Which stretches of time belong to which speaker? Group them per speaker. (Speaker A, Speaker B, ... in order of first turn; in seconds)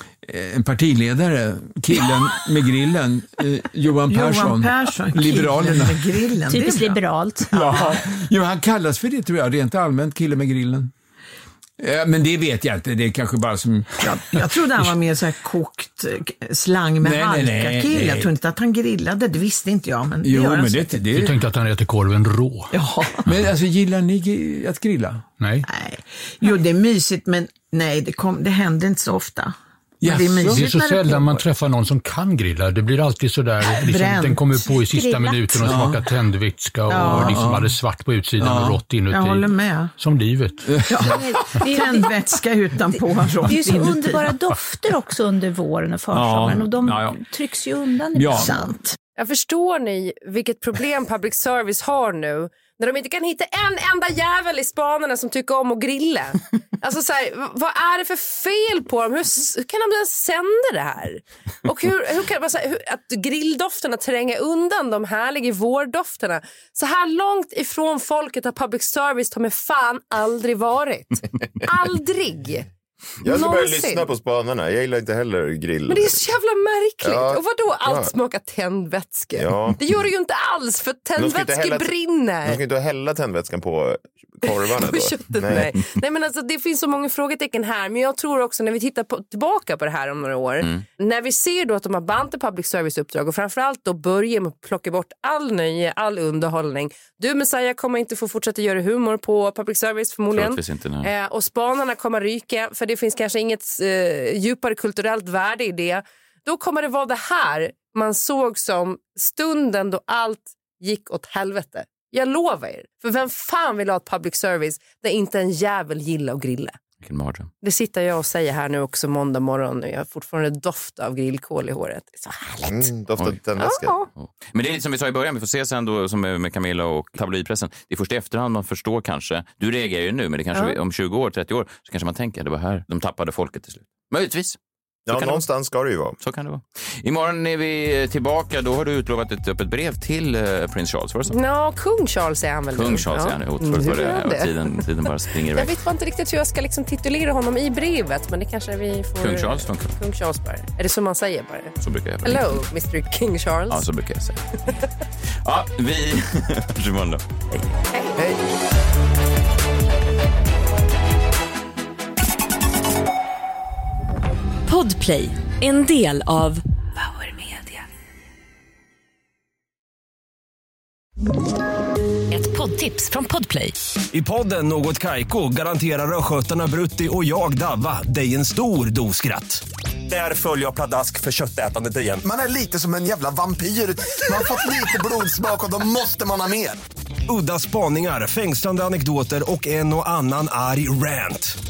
Speaker A: 0.2-6.3, 7.5-10.9, 11.8-14.9, 17.0-18.3, 20.2-21.3, 23.2-25.3, 30.0-30.7, 35.6-36.0, 37.0-37.7, 38.4-38.9, 40.7-41.0, 46.1-47.2, 48.1-48.5
Speaker B: 4.1-8.0, 14.0-21.1, 22.7-23.3, 25.7-31.4, 33.7-34.9, 36.9-37.5, 39.1-39.9, 40.9-44.3, 48.3-48.9
Speaker C: 6.5-7.7, 34.9-35.6, 41.1-42.1, 43.5-48.8
Speaker D: 21.1-22.7, 25.4-25.7, 30.4-40.6
Speaker E: 49.2-72.7, 73.2-74.1, 75.9-82.6, 84.5-116.8, 117.6-122.9, 123.6-124.1, 141.3-144.5, 145.5-153.8, 157.9-158.2
Speaker F: 73.2-76.2, 77.0-78.1, 79.3-79.8, 81.2-81.9, 82.4-85.7, 122.7-123.9, 135.1-136.2
Speaker G: 100.3-101.1, 117.0-117.5, 124.2-134.6, 135.1-135.4, 136.2-141.3, 142.7-145.7, 149.2-149.9, 151.8-152.6, 153.7-154.4, 155.4-157.7
Speaker H: 164.6-167.8, 172.3-173.8
Speaker I: 174.1-182.2, 187.3-191.6
Speaker J: 182.2-186.8